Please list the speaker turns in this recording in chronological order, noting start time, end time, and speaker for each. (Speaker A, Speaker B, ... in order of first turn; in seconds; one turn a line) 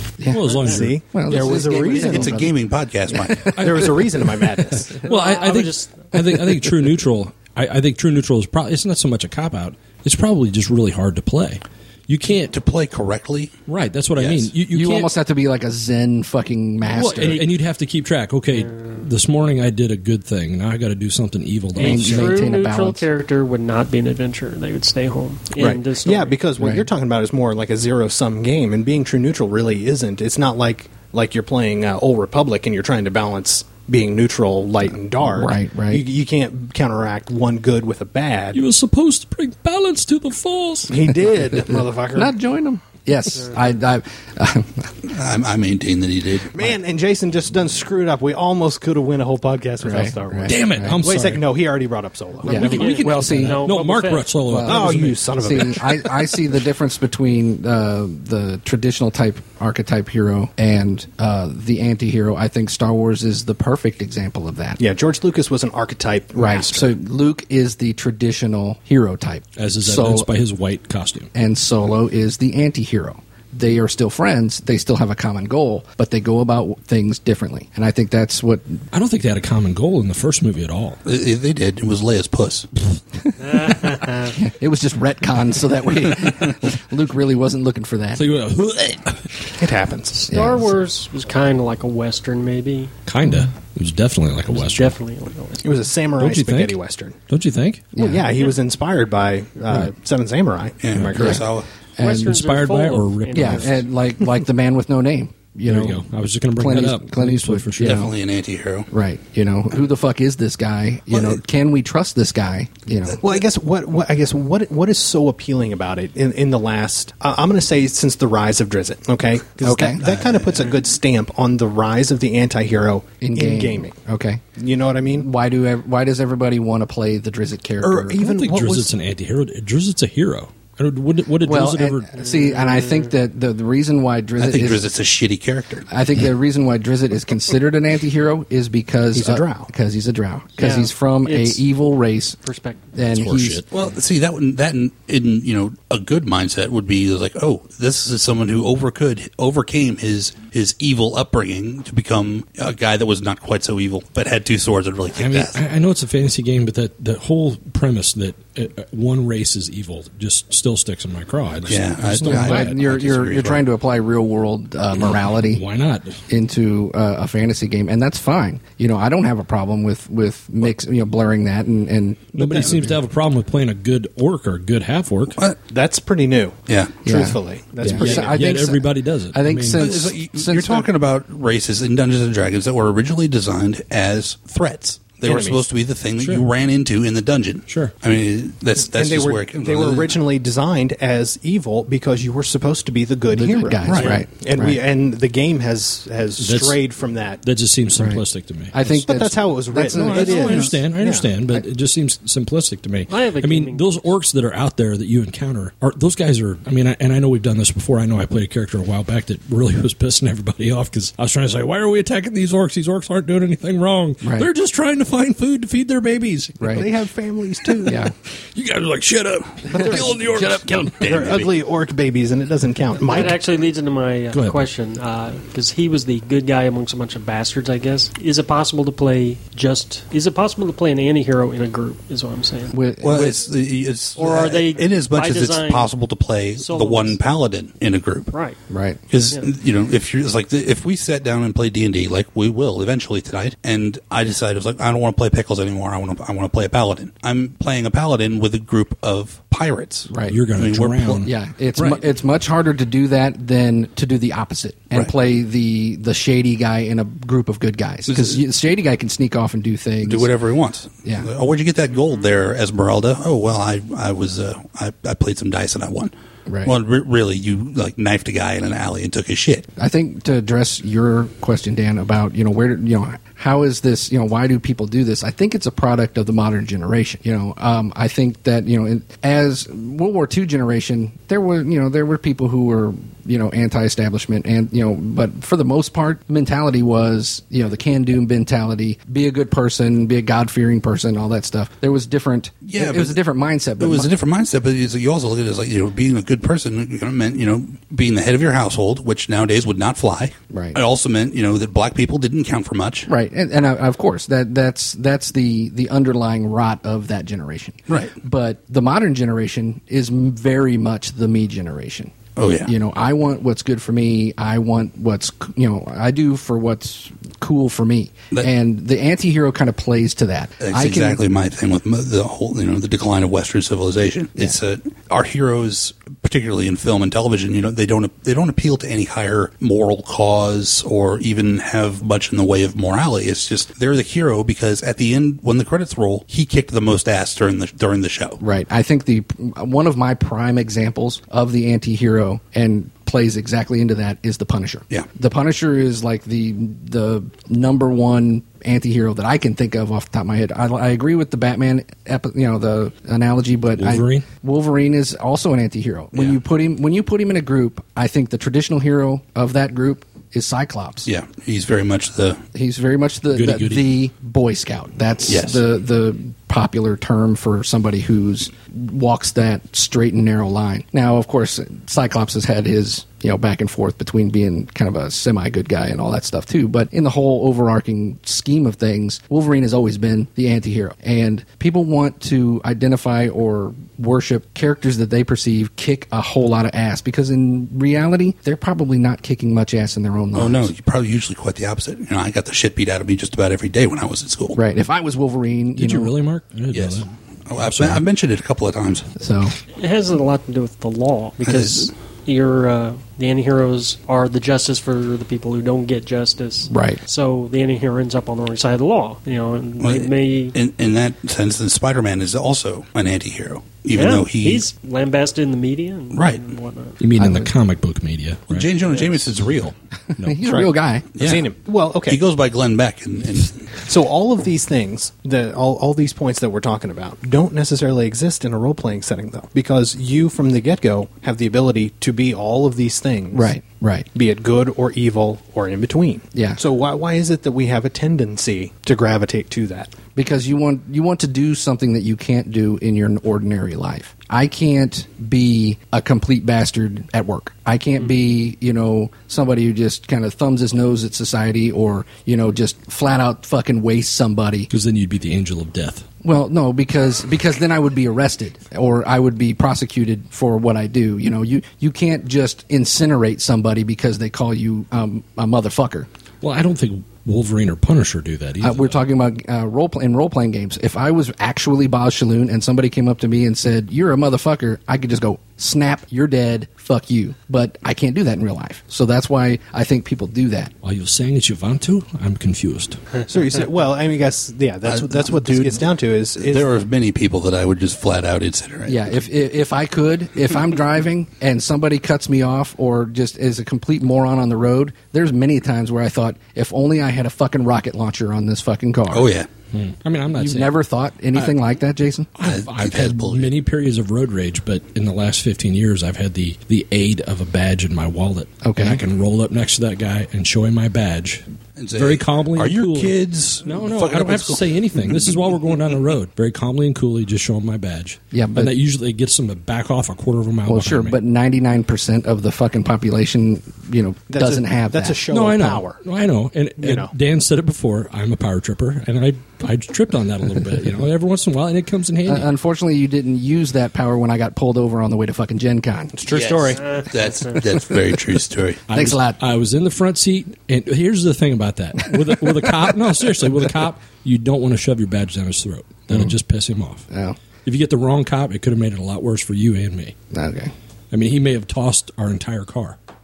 Speaker A: 0.2-0.4
Speaker B: 0.3-1.1
Speaker C: 0.4-0.8
Speaker D: 0.6-2.5
Speaker A: 1.1-2.5
Speaker E: 1.9-3.8
Speaker A: 3.1-3.8
Speaker D: 3.1-5.0
Speaker B: 3.4-3.9
Speaker B: 4.9-12.5
Speaker C: 5.0-6.1
Speaker E: 12.5-13.5
Speaker B: 13.7-15.1
Speaker E: 14.2-14.5
Speaker A: 14.7-17.4
Speaker B: 16.8-22.4
Speaker C: 17.2-17.5
Speaker C: 18.6-19.0
Speaker C: 21.7-26.4
Speaker A: 21.8-23.1
Speaker A: 25.6-25.8
Speaker D: 26.0-38.6
Speaker A: 26.6-26.9
Speaker A: 35.2-36.0
Speaker B: 38.5-41.1
Speaker D: 40.9-42.3
Speaker A: 42.1-44.9
Speaker E: 45.0-46.6
Speaker D: 46.5-53.0
Speaker A: 49.8-51.0
Speaker B: 50.5-51.5
Speaker A: 52.4-53.7
Speaker B: 52.5-55.3
Speaker C: 52.5-54.3
Speaker A: 54.4-64.8
Speaker D: 54.6-56.2
Speaker D: 64.8-66.9
Speaker A: 66.3-70.3
Speaker B: 69.5-71.3
Speaker A: 71.3-78.8
Speaker B: 78.9-81.0
Speaker E: 81.0-82.7
Speaker C: 83.4-84.4
Speaker A: 83.5-88.2
Speaker B: 88.1-89.5
Speaker D: 89.6-90.2
Speaker C: 90.2-92.9
Speaker A: 90.3-90.7
Speaker B: 93.0-95.0
Speaker C: 94.5-95.8
Speaker D: 95.6-97.2
Speaker B: 96.2-96.8
Speaker B: 97.3-97.9
Speaker A: 97.9-98.3
Speaker D: 98.0-101.5
Speaker E: 100.8-101.7
Speaker B: 100.9-101.3
Speaker A: 101.2-101.4
Speaker A: 102.0-102.4
Speaker C: 102.0-103.8
Speaker B: 102.2-103.8
Speaker A: 103.3-106.0
Speaker B: 105.7-108.0
Speaker A: 106.5-108.1
Speaker E: 107.8-108.9
Speaker A: 108.9-113.2
Speaker E: 111.1-111.4
Speaker D: 113.2-123.9
Speaker A: 119.6-120.0
Speaker E: 120.0-120.8
Speaker A: 123.2-124.4
Speaker D: 124.5-125.3
Speaker A: 125.1-128.2
Speaker D: 127.8-128.9
Speaker B: 128.2-132.1
Speaker A: 131.4-134.8
Speaker C: 132.2-133.1
Speaker E: 134.4-135.9
Speaker A: 135.9-142.4
Speaker D: 139.1-139.7
Speaker C: 140.6-141.6
Speaker C: 142.4-142.9
Speaker A: 142.9-143.6
Speaker B: 143.0-143.7
Speaker E: 143.7-155.6
Speaker B: 155.1-162.8
Speaker E: 161.7-163.6
Speaker A: 162.2-165.6
Speaker B: 165.0-166.2
Speaker A: 166.3-173.0
Speaker B: 172.3-175.4
Speaker D: 172.4-172.8
Speaker D: 175.7-178.6
Speaker E: 176.7-176.9
Speaker A: 177.0-180.9
Speaker B: 177.8-179.9
Speaker E: 179.8-190.2
Speaker D: 185.2-185.6
Speaker B: 186.2-186.4
Speaker B: 187.7-187.9
Speaker D: 188.9-197.4
Speaker A: 193.3-194.8
Speaker E: 193.8-194.2
Speaker B: 196.4-196.8
Speaker B: 197.4-198.8
Speaker A: 197.9-198.2
Speaker A: 198.7-200.7
Speaker D: 198.8-201.3
Speaker B: 199.8-216.9
Speaker E: 200.3-200.7
Speaker C: 203.1-204.1
Speaker A: 214.2-214.5
Speaker A: 216.6-216.9
Speaker D: 216.7-218.0
Speaker B: 217.6-221.3
Speaker A: 217.8-218.1
Speaker D: 219.7-220.1
Speaker A: 219.8-220.9
Speaker E: 220.2-221.5
Speaker D: 221.0-223.4
Speaker C: 223.0-232.8
Speaker B: 224.3-224.7
Speaker A: 232.7-233.4
Speaker E: 233.0-238.3
Speaker C: 234.2-235.9
Speaker C: 236.6-237.2
Speaker C: 238.3-238.6
Speaker A: 238.7-239.0
Speaker E: 239.1-251.3
Speaker A: 250.1-250.4
Speaker B: 250.2-252.0
Speaker A: 251.2-260.3
Speaker E: 258.1-258.4
Speaker E: 260.0-266.1
Speaker A: 266.5-266.7
Speaker E: 266.6-269.7
Speaker A: 269.8-294.1
Speaker E: 292.6-293.2
Speaker E: 293.8-303.1
Speaker A: 300.5-300.8
Speaker A: 303.1-321.2
Speaker E: 307.9-308.1
Speaker E: 312.4-312.7
Speaker E: 320.6-338.4
Speaker A: 338.4-361.1
Speaker B: 353.8-354.2
Speaker E: 361.1-362.4
Speaker A: 362.5-390.7
Speaker B: 363.3-363.9
Speaker E: 365.3-365.6
Speaker E: 390.3-394.6
Speaker A: 394.5-396.1
Speaker B: 395.8-398.0
Speaker E: 396.7-399.1
Speaker A: 399.2-399.5
Speaker C: 399.7-410.5
Speaker E: 401.4-401.9
Speaker A: 406.7-407.0
Speaker E: 409.8-414.6
Speaker C: 413.9-417.0
Speaker E: 416.1-416.4
Speaker B: 417.0-418.7
Speaker A: 417.2-417.5
Speaker E: 418.5-419.7
Speaker B: 420.2-420.5
Speaker A: 420.2-421.1
Speaker D: 420.4-422.2
Speaker E: 421.1-421.5
Speaker E: 422.1-423.7
Speaker D: 423.8-433.5
Speaker A: 433.3-434.1
Speaker D: 434.1-439.9
Speaker A: 436.3-436.6
Speaker A: 440.1-454.7
Speaker B: 454.7-456.1
Speaker A: 456.2-466.1
Speaker B: 466.4-469.0
Speaker A: 468.6-480.7
Speaker B: 480.8-483.2
Speaker D: 483.3-486.7
Speaker E: 484.8-489.0
Speaker A: 488.9-499.3
Speaker E: 499.1-499.5
Speaker B: 499.7-500.7
Speaker A: 500.3-502.3
Speaker B: 502.4-521.2
Speaker E: 502.4-503.5
Speaker A: 508.6-509.0
Speaker E: 511.8-515.2
Speaker A: 518.3-518.7
Speaker A: 520.6-525.2
Speaker D: 524.3-526.0
Speaker B: 525.3-532.5
Speaker D: 526.8-527.1
Speaker A: 532.2-536.1
Speaker D: 536.1-536.8
Speaker E: 536.3-538.8
Speaker C: 536.8-537.6
Speaker B: 538.9-547.1
Speaker A: 538.9-539.4
Speaker A: 542.0-542.9
Speaker A: 547.1-547.4
Speaker B: 547.6-550.1
Speaker A: 550.3-550.7
Speaker B: 551.1-553.0